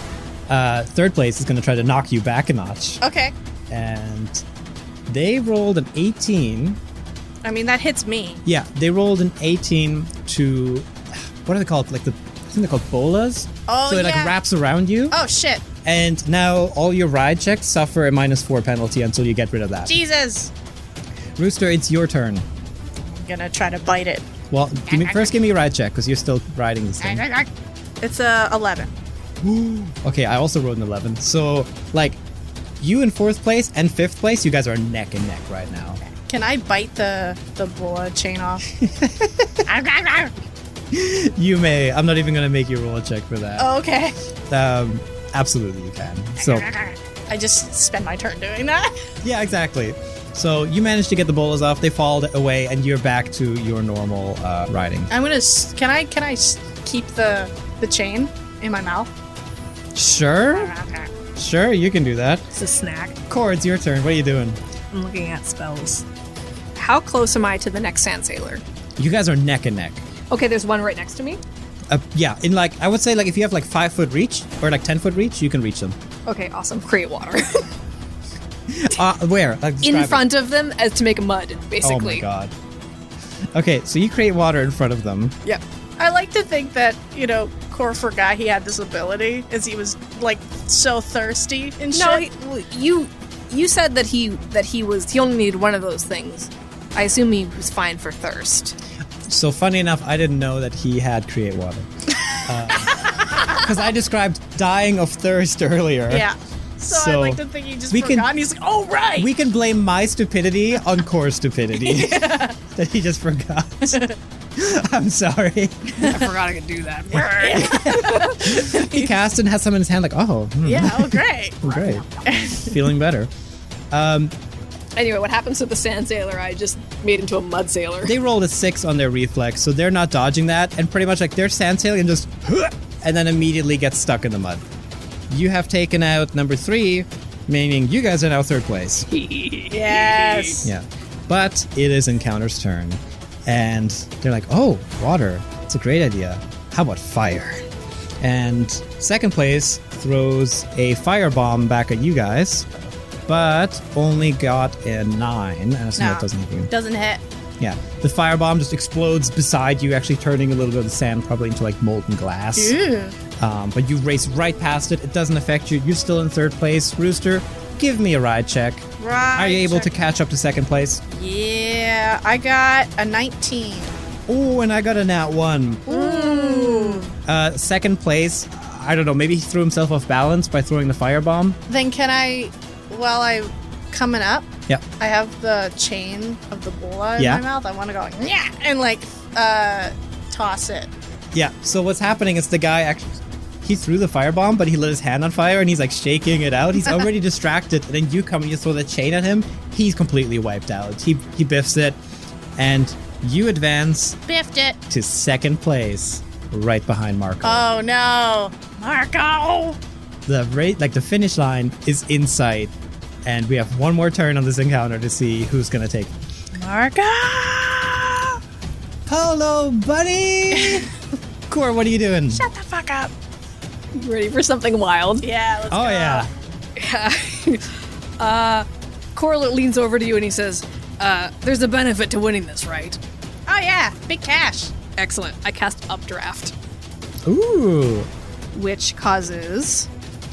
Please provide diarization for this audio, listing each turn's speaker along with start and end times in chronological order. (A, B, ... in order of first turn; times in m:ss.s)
0:00.5-0:03.0 A
0:03.0-0:03.3 B
0:03.7-0:04.4 A
0:05.1-0:06.8 A
0:07.4-0:08.4 B
0:08.4-0:10.9 A
0:11.4-0:15.2 A
0:13.7-0:14.4 B
0:15.1-0:15.6 B
0:15.8-0:20.0 A
0:19.9-0:20.5 B
0:21.4-0:22.5 A
0:23.1-0:24.3 B
0:24.5-0:27.2 A
0:24.9-0:25.3 B
0:27.0-0:27.5 B
0:28.0-0:28.9 B
0:29.4-0:32.2 A
0:32.8-0:36.0 A
0:36.0-0:38.6 B
0:38.8-0:39.6 A
0:39.7-0:40.4 B
0:40.9-0:43.7 A
0:43.6-0:44.2 B
0:44.5-0:46.7 A
0:46.4-0:49.0 B
0:49.2-0:55.1 A
0:55.1-0:59.1 B
1:00.0-1:00.7 A
1:00.5-1:01.1 B
1:01.4-1:02.5 A
1:02.5-1:03.2 C
1:03.3-1:04.6 A
1:04.9-1:06.1 C
1:06.8-1:08.6 C
1:09.0-1:10.1 A
1:10.3-1:11.4 C
1:11.9-1:16.0 A
1:16.3-1:17.7 C
1:18.7-1:20.3 A
1:19.8-1:22.2 C
1:21.8-1:22.5 A
1:23.5-1:25.4 A
1:26.0-1:32.2 B
1:31.9-1:38.8 C
1:39.3-1:46.3 A
1:46.1-1:49.3 B
1:46.9-1:48.3 A
1:49.2-1:54.0 A
1:51.8-1:52.6 B
1:53.9-1:54.1 B
1:54.6-1:56.1 A
1:56.0-1:58.4 C
1:57.2-1:59.1 B
1:57.5-2:03.3 A
2:00.6-2:02.8 B
2:03.9-2:04.3 A
2:05.0-2:08.1 C
2:08.0-2:14.6 A
2:15.3-2:19.1 A
2:19.1-2:20.7 C
2:19.7-2:20.7 B
2:20.6-2:27.6 A
2:28.2-2:32.7 A
2:33.3-2:36.7 A
2:36.0-2:37.2 B
2:37.6-2:42.8 A
2:42.6-2:43.2 B
2:43.4-2:51.0 A
2:49.0-2:49.9 B
2:51.1-2:54.0 B
2:54.3-2:55.9 A
2:55.9-2:57.1 C
2:55.9-2:57.1 B
2:57.2-3:01.6 A
3:01.7-3:10.9 B
3:07.2-3:07.4 A
3:11.3-3:22.0 A
3:22.6-3:24.2 A
3:24.3-3:24.8 B
3:24.9-3:27.6 A
3:27.4-3:29.8 B
3:30.3-3:32.7 A
3:33.2-3:36.1 A
3:36.6-3:38.4 B
3:39.1-3:40.9 A
3:40.5-3:40.9 B
3:41.5-3:42.4 A
3:42.3-3:43.1 B
3:43.9-3:45.3 C
3:45.2-3:46.3 B
3:45.7-3:46.3 A
3:46.8-3:53.0 C
3:53.5-3:54.7 B
3:55.0-3:56.5 C
3:57.3-3:58.1 A
3:58.5-3:59.9 C